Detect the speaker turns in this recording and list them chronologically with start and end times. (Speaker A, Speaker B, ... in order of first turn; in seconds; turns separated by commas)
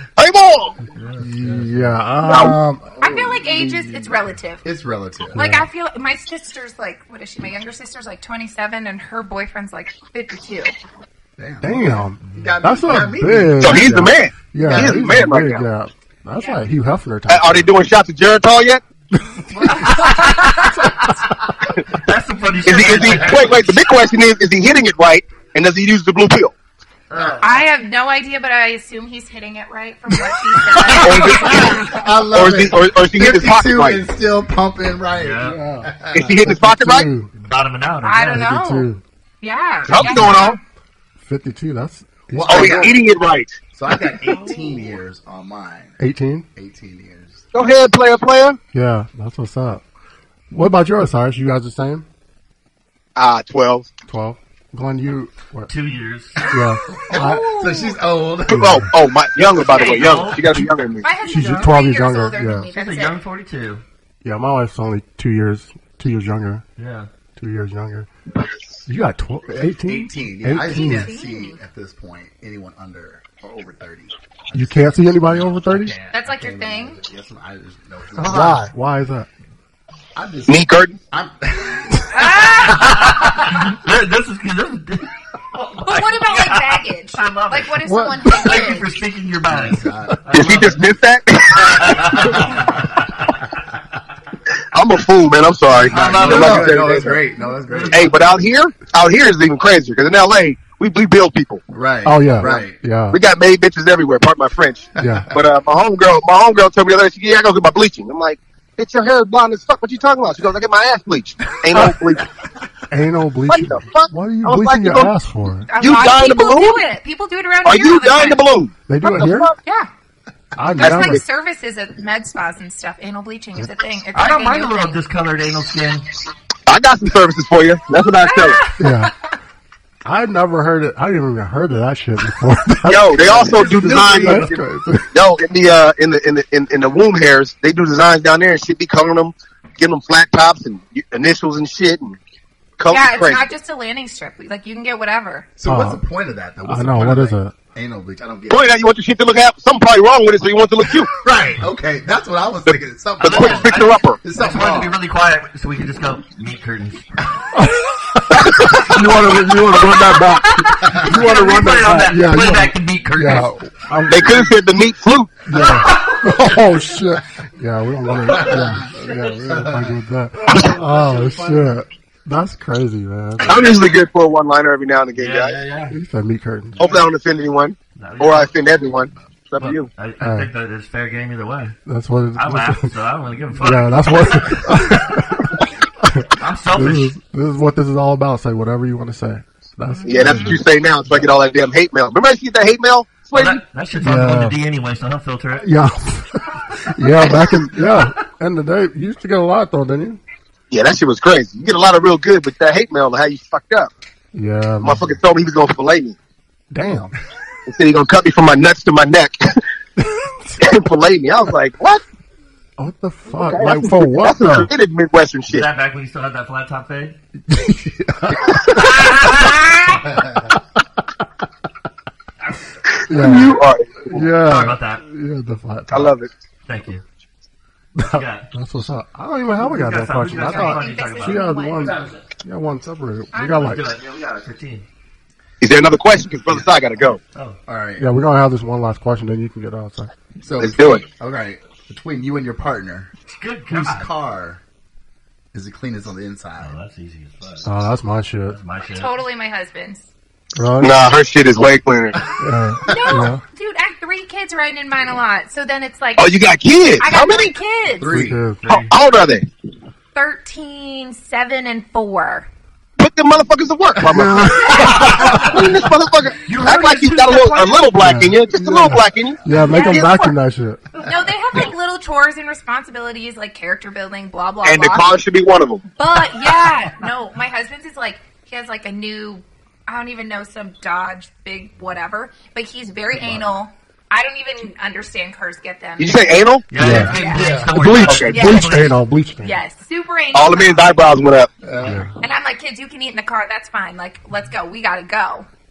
Speaker A: 0.2-0.8, Speaker B: 0.9-1.9, Speaker C: 1.2-2.8, Speaker A: 2.2-2.6, Speaker D: 2.8-5.4, Speaker E: 3.0-4.6, Speaker E: 5.3-10.8, Speaker C: 5.3-5.7, Speaker D: 11.4-13.9, Speaker C: 11.6-17.7, Speaker B: 12.2-12.5, Speaker A: 13.6-15.7, Speaker A: 17.3-18.8, Speaker C: 19.2-21.1, Speaker D: 19.5-19.9, Speaker B: 19.7-21.2, Speaker E: 19.8-20.7, Speaker B: 21.7-23.8, Speaker A: 22.6-26.5, Speaker B: 27.1-27.6, Speaker D: 27.1-27.4, Speaker E: 27.4-32.0, Speaker D: 30.7-36.3, Speaker A: 31.0-34.0, Speaker B: 35.1-35.6, Speaker C: 35.5-37.3, Speaker A: 36.1-37.1, Speaker B: 37.4-38.5, Speaker E: 38.0-38.9, Speaker C: 38.2-39.0, Speaker E: 39.4-40.6, Speaker A: 39.9-40.6, Speaker C: 40.0-40.3, Speaker C: 41.2-43.0, Speaker D: 42.3-43.0, Speaker A: 42.5-44.4, Speaker D: 43.7-46.0, Speaker C: 46.0-46.5, Speaker D: 46.5-47.5, Speaker A: 47.5-48.6, Speaker C: 48.7-49.8, Speaker C: 50.5-52.1, Speaker A: 53.2-53.9, Speaker C: 54.1-55.7, Speaker B: 55.7-56.5, Speaker C: 56.5-57.5, Speaker E: 57.1-58.0, Speaker D: 57.1-58.8, Speaker A: 58.5-61.1, Speaker C: 58.5-58.9, Speaker B: 59.6-60.7, Speaker E: 59.8-60.1, Speaker E: 61.0-63.2, Speaker C: 61.2-62.7, Speaker B: 62.8-63.8, Speaker C: 64.2-66.6, Speaker B: 66.8-67.1, Speaker C: 67.4-68.1, Speaker C: 68.9-71.1, Speaker D: 69.5-78.6, Speaker E: 70.7-71.6, Speaker C: 74.5-76.0, Speaker E: 76.1-77.0, Speaker B: 78.2-78.6, Speaker C: 78.3-79.3, Speaker D: 80.2-83.3, Speaker A: 80.5-81.0, Speaker E: 82.1-83.1, Speaker B: 82.7-90.8, Speaker E: 85.8-88.9, Speaker C: 87.8-88.5, Speaker D: 89.5-90.3, Speaker A: 90.3-92.3, Speaker B: 91.8-93.1, Speaker D: 91.8-92.9, Speaker A: 94.7-97.2, Speaker B: 95.9-96.8, Speaker D: 95.9-98.2, Speaker B: 97.7-98.1, Speaker A: 97.9-101.6, Speaker D: 101.7-102.8, Speaker C: 102.0-103.2, Speaker A: 103.1-112.3, Speaker C: 105.0-105.3, Speaker D: 105.0-105.3, Speaker C: 112.9-115.7, Speaker A: 113.5-115.1, Speaker E: 115.7-118.4, Speaker A: 115.8-116.8, Speaker A: 117.7-119.5, Speaker C: 118.9-119.5, Speaker E: 119.6-119.9, Speaker C: 120.6-121.2, Speaker A: 120.8-121.2, Speaker E: 120.8-125.0, Speaker B: 124.2-126.1, Speaker A: 126.7-128.6, Speaker E: 128.2-129.1, Speaker C: 128.8-129.1, Speaker C: 130.1-135.2, Speaker A: 132.9-134.6, Speaker D: 133.5-134.5, Speaker A: 135.1-142.2, Speaker A: 142.8-143.5, Speaker E: 142.9-145.5, Speaker D: 145.6-148.7, Speaker C: 145.7-146.0, Speaker C: 146.7-147.6, Speaker A: 148.5-151.1, Speaker D: 151.1-155.0, Speaker A: 152.7-154.2, Speaker B: 153.2-157.3, Speaker C: 157.6-164.5, Speaker B: 158.9-163.5, Speaker D: 160.8-161.1, Speaker A: 164.1-165.5, Speaker C: 165.5-173.7, Speaker B: 165.6-166.4, Speaker B: 168.3-169.4, Speaker D: 168.3-168.9, Speaker D: 169.5-169.9, Speaker D: 170.6-171.7, Speaker A: 173.4-175.6, Speaker B: 173.4-173.8, Speaker B: 175.2-176.0, Speaker C: 175.9-176.8, Speaker B: 176.8-177.1, Speaker A: 176.8-179.9, Speaker B: 178.0-178.5, Speaker B: 179.6-181.8, Speaker C: 180.2-180.5, Speaker C: 181.9-182.9, Speaker B: 182.4-185.1, Speaker C: 183.5-190.6, Speaker B: 186.4-187.1, Speaker A: 190.1-193.6, Speaker B: 193.3-195.7, Speaker C: 194.0-194.6, Speaker C: 195.6-200.2, Speaker B: 197.2-198.1, Speaker A: 200.7-203.9, Speaker C: 204.3-205.2, Speaker A: 204.8-206.2, Speaker C: 206.7-207.1, Speaker A: 207.7-209.6, Speaker C: 210.0-210.6, Speaker A: 210.6-212.0, Speaker C: 212.8-214.7, Speaker A: 213.3-215.7, Speaker B: 215.5-217.2, Speaker C: 217.5-219.6, Speaker B: 218.8-219.8, Speaker D: 220.1-220.4, Speaker B: 222.4-222.8, Speaker A: 222.9-224.3, Speaker C: 223.1-226.2, Speaker B: 224.4-225.0, Speaker A: 225.9-226.3, Speaker B: 226.7-227.0, Speaker C: 228.0-233.9, Speaker B: 228.1-228.5, Speaker B: 229.6-232.2, Speaker E: 230.3-232.1, Speaker E: 233.3-233.7, Speaker B: 233.5-234.8, Speaker A: 235.6-237.2, Speaker D: 237.7-238.1, Speaker C: 238.0-240.1, Speaker D: 240.4-243.1, Speaker A: 240.6-241.1, Speaker B: 243.3-244.1, Speaker D: 243.7-244.6, Speaker D: 245.5-246.8, Speaker B: 246.6-247.7, Speaker C: 247.6-248.6, Speaker B: 248.5-249.1, Speaker E: 248.9-250.1, Speaker C: 250.6-251.0, Speaker A: 250.8-252.2, Speaker C: 252.4-253.4, Speaker E: 252.8-256.4, Speaker D: 252.9-253.3, Speaker A: 256.2-257.5, Speaker E: 257.0-258.1, Speaker D: 258.0-258.4, Speaker C: 258.1-258.7, Speaker B: 258.6-258.9, Speaker A: 258.7-259.5, Speaker E: 260.1-262.5, Speaker A: 263.0-270.3, Speaker C: 264.0-265.6, Speaker B: 264.9-265.5, Speaker B: 266.4-267.9, Speaker C: 268.0-270.9, Speaker E: 269.6-270.3, Speaker E: 271.0-275.1, Speaker A: 274.6-275.9, Speaker E: 276.0-286.3, Speaker D: 283.2-283.4, Speaker A: 286.0-286.7, Speaker B: 286.7-289.0, Speaker C: 286.8-289.6, Speaker D: 286.8-287.8, Speaker E: 286.9-287.5, Speaker A: 288.0-288.4, Speaker E: 288.3-288.8, Speaker E: 289.4-291.1, Speaker A: 290.3-291.5, Speaker D: 291.6-292.1, Speaker C: 291.8-292.1, Speaker E: 292.2-295.5